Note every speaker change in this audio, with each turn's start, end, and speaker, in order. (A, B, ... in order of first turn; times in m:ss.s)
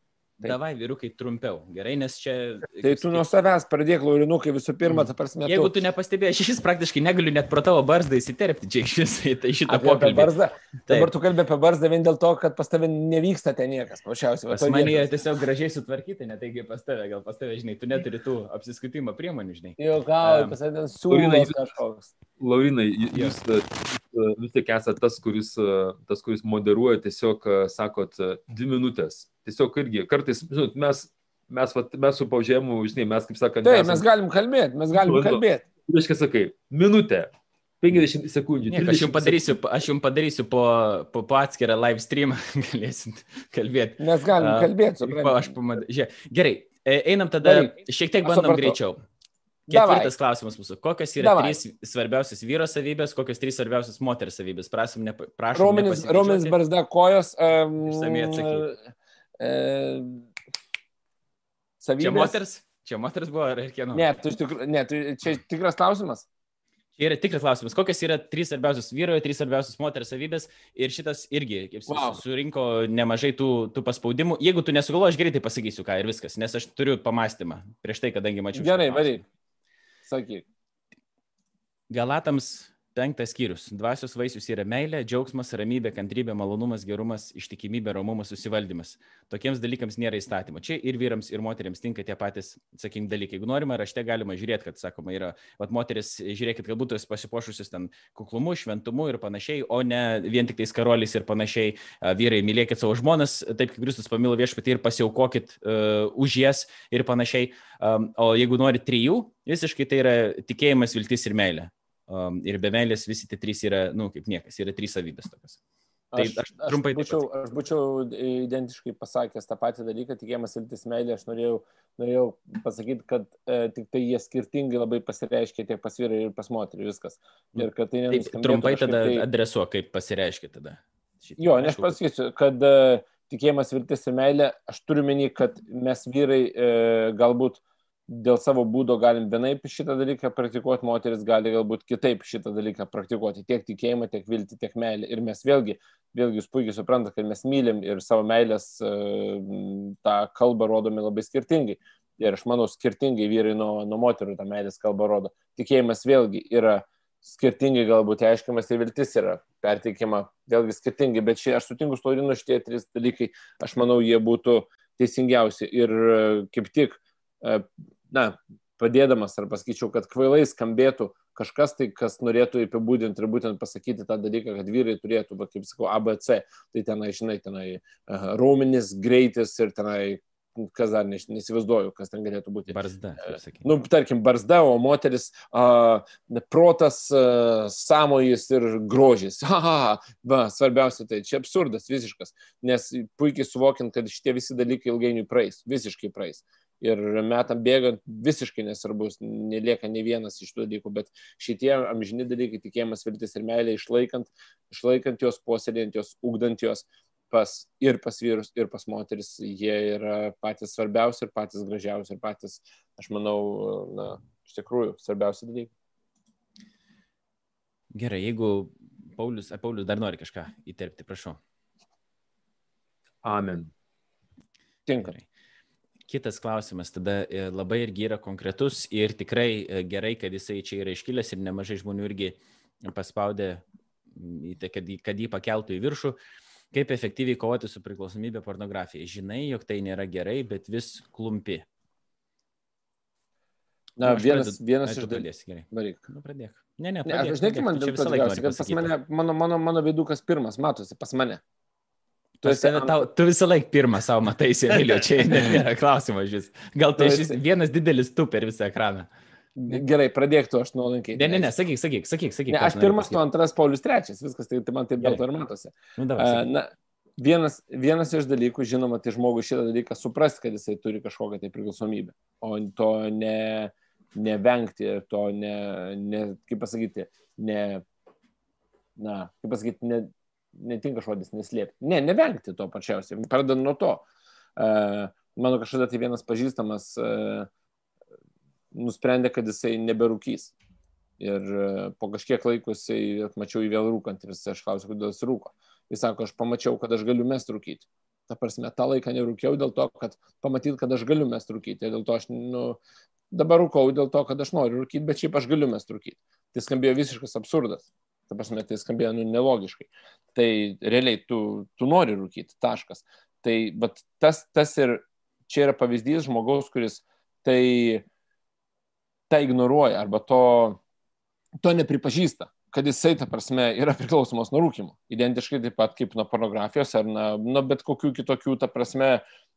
0:00.4-0:03.3 A
0:02.8-0:05.7 B
0:04.9-0:10.3 A
0:09.7-0:15.1 B
0:10.9-0:11.1 A
0:14.5-0:20.6 A
0:19.8-0:22.1 B
0:21.1-0:21.7 C
0:22.4-0:34.1 C
0:33.6-0:35.6 B
0:34.9-0:39.5 C
0:38.7-0:49.0 A
0:44.0-0:45.4 B
0:47.4-0:48.8 B
0:49.7-0:56.6 A
0:49.7-0:50.1 B
0:51.2-0:51.6 B
0:55.6-0:58.8 B
0:57.8-0:58.7 A
0:59.4-1:00.3 B
1:01.8-1:02.4 B
1:02.0-1:04.1 A
1:03.9-1:06.3 B
1:07.0-1:19.2 A
1:11.9-1:12.2 B
1:18.6-1:19.2 B
1:20.1-1:20.4 B
1:21.9-1:55.6 A
1:56.1-2:09.2 B
1:56.2-1:57.3 A
2:07.5-2:12.0 A
2:11.4-3:35.7 B
3:02.7-3:03.7 A
3:37.9-3:41.4 A
3:43.2-3:43.7 C
3:44.9-3:45.2 B
3:45.0-3:45.2 A
3:46.1-3:53.6 A
3:54.2-3:56.2 A
3:56.7-4:01.6 A
4:04.0-4:06.0 B
4:04.0-4:08.9 A
4:07.1-4:11.4 B
4:12.4-4:13.0 B
4:12.4-4:19.1 A
4:17.0-4:17.4 B
4:19.6-4:21.5 B
4:21.2-4:23.2 A
4:22.5-4:37.8 B
4:26.0-4:26.5 A
4:39.0-4:44.0 B
4:44.6-4:47.5 B
4:48.7-4:50.5 B
4:51.2-5:02.8 B
5:03.3-5:18.0 B
5:19.3-5:20.8 B
5:21.6-5:29.2 B